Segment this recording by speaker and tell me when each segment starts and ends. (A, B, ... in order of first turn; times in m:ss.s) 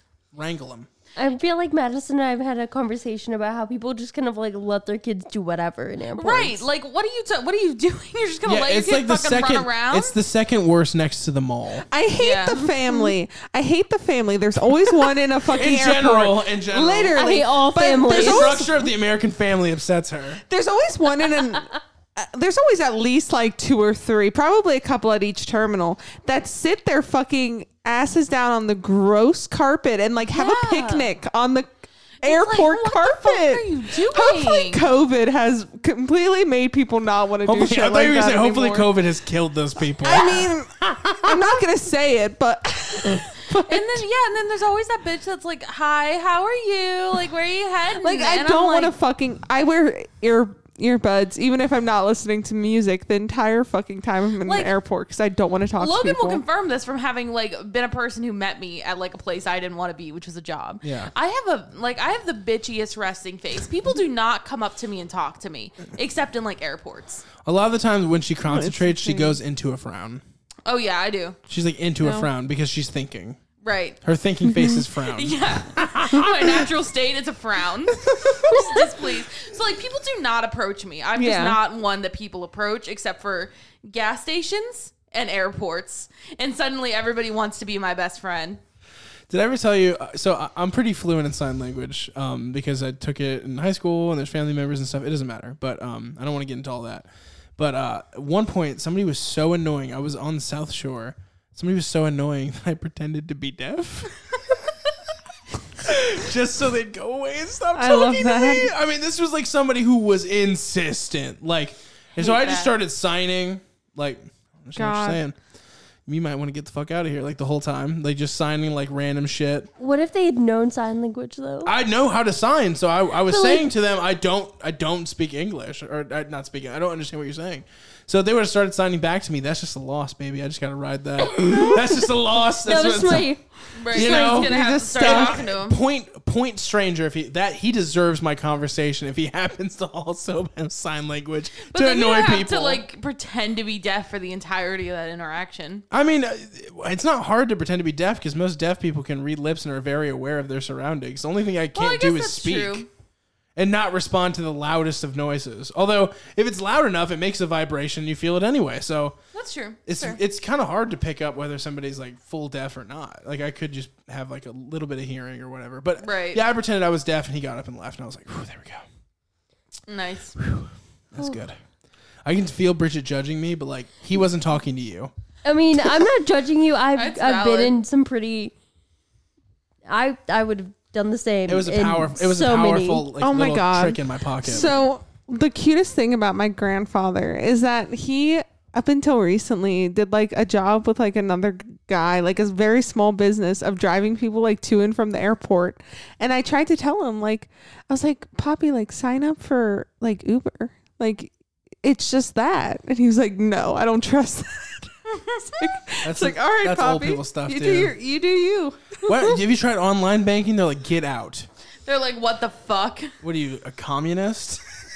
0:00.3-0:00.9 A
0:01.2-0:06.6 B
0:06.2-0:10.2 C
0:08.4-0:11.9 A
0:11.9-0:18.8 D
0:12.2-0:12.9 C
0:15.4-0:17.4 A
0:17.1-0:18.7 B
0:18.0-0:20.4 A
0:20.5-0:31.7 D
0:30.3-0:31.1 C
0:32.2-0:34.9 C
0:32.2-0:38.9 D
0:37.4-0:41.6 A
0:40.0-0:44.0 D
0:40.1-0:40.4 C
0:43.5-0:48.9 C
0:48.0-0:56.4 D
0:54.4-0:54.7 C
0:55.8-1:07.3 C
1:00.8-1:01.1 A
1:07.4-1:10.2 A
1:08.5-1:09.4 D
1:10.6-1:11.4 C
1:11.5-1:13.4 A
1:12.0-1:12.3 D
1:13.6-1:14.0 C
1:14.0-1:16.5 A
1:14.4-1:14.8 D
1:15.0-1:28.6 C
1:18.0-1:18.8 D
1:21.2-1:21.6 D
1:29.3-1:44.6 A
1:45.8-1:55.4 A
1:47.8-1:48.7 D
1:52.2-1:52.7 C
1:54.8-1:55.2 D
1:56.1-1:59.7 A
1:59.8-2:01.7 B
2:01.7-2:13.3 A
2:03.3-2:03.6 B
2:11.3-2:12.0 B
2:12.6-2:13.4 B
2:13.8-2:15.8 C
2:13.9-2:15.4 D
2:13.9-2:22.8 A
2:21.7-2:25.8 C
2:25.9-2:32.9 A
2:31.8-2:32.9 C
2:33.6-2:39.2 A
2:39.3-2:40.2 C
2:39.9-2:48.8 A
2:46.0-2:46.4 C
2:49.9-2:50.4 C
2:50.4-2:51.6 A
2:52.2-2:55.1 A
2:55.4-2:58.5 B
2:57.0-2:57.8 C
2:59.9-3:03.1 B
3:01.5-3:04.7 A
3:03.2-3:24.9 D
3:25.2-3:25.7 C
3:25.6-3:29.3 D
3:26.0-3:28.0 A
3:29.1-3:31.5 A
3:31.9-3:33.1 C
3:33.2-3:34.6 A